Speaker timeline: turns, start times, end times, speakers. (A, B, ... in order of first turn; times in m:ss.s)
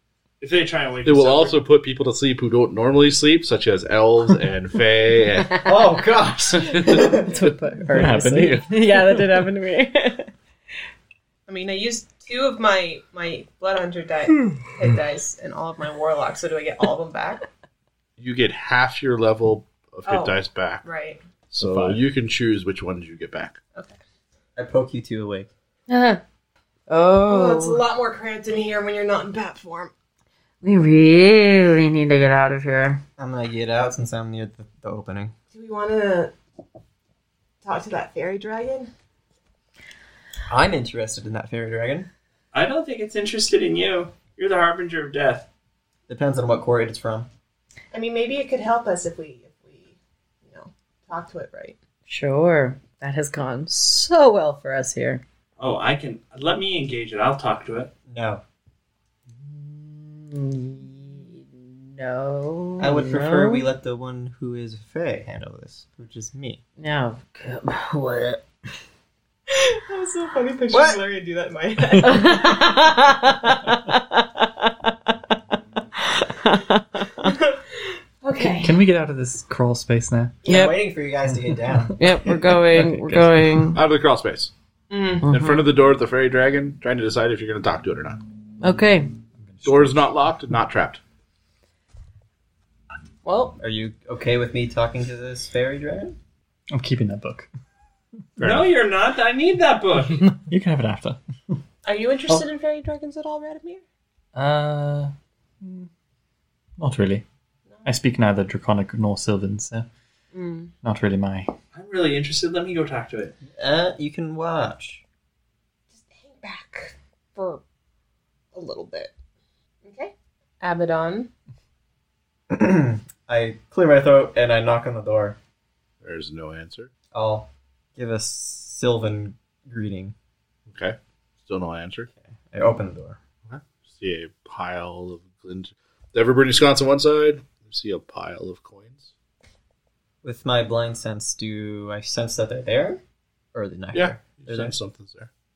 0:00.4-0:01.6 A
0:01.0-0:05.6 B
0:05.6-0:07.5 C
0:06.5-0:07.1 B
0:07.0-0:10.3 D
0:07.9-0:09.3 E
0:11.5-0:17.4 F
0:18.2-0:20.8 B
0:20.0-0:21.2 F
0:21.5-0:23.6 B
0:21.6-0:22.0 E
0:24.6-0:25.5 C
0:25.9-0:26.2 D
0:26.9-0:27.8 D
0:27.2-0:29.9 F
0:30.6-0:33.0 D
0:33.2-0:35.3 C
0:35.5-0:36.3 F
0:37.6-0:38.9 F
0:40.5-0:42.1 C
0:42.5-0:45.5 A
0:46.1-0:47.3 C
0:47.9-0:51.8 F
0:52.1-0:55.2 D
0:55.6-0:57.9 A
0:58.1-0:58.4 C
0:59.9-1:03.6 D
1:02.8-1:06.6 C
1:06.8-1:08.4 D
1:09.9-1:12.3 F
1:10.7-1:11.0 C
1:12.0-1:15.1 D
1:16.0-1:17.4 D
1:18.2-1:18.8 F
1:18.6-1:20.4 E
1:20.4-1:23.2 C
1:20.5-1:20.8 D
1:22.0-1:23.8 D
1:23.7-1:24.5 B
1:24.9-1:25.2 F
1:25.2-1:25.6 D
1:25.2-1:28.2 B
1:28.6-1:29.1 D
1:29.4-1:30.1 E
1:29.6-1:31.0 B
1:33.2-1:33.6 F
1:33.6-1:36.2 C
1:36.7-1:37.5 E
1:38.4-1:40.3 A
1:38.4-1:38.7 B
1:40.5-1:41.2 E
1:41.8-1:43.8 F
1:44.3-1:45.9 E
1:46.8-1:47.2 E
1:47.8-1:49.9 E
1:50.3-1:50.7 F
1:50.8-1:51.5 E
1:51.7-1:53.4 A
1:53.5-1:55.0 C
1:55.9-1:57.6 F
1:58.5-1:59.1 F
1:59.8-2:01.3 F
2:02.5-2:05.4 C
2:06.0-2:06.9 B
2:07.1-2:10.1 C
2:10.7-2:12.1 B
2:12.5-2:13.2 C
2:13.5-2:19.1 B
2:20.2-2:23.0 C
2:23.5-2:24.8 C
2:23.9-2:25.3 B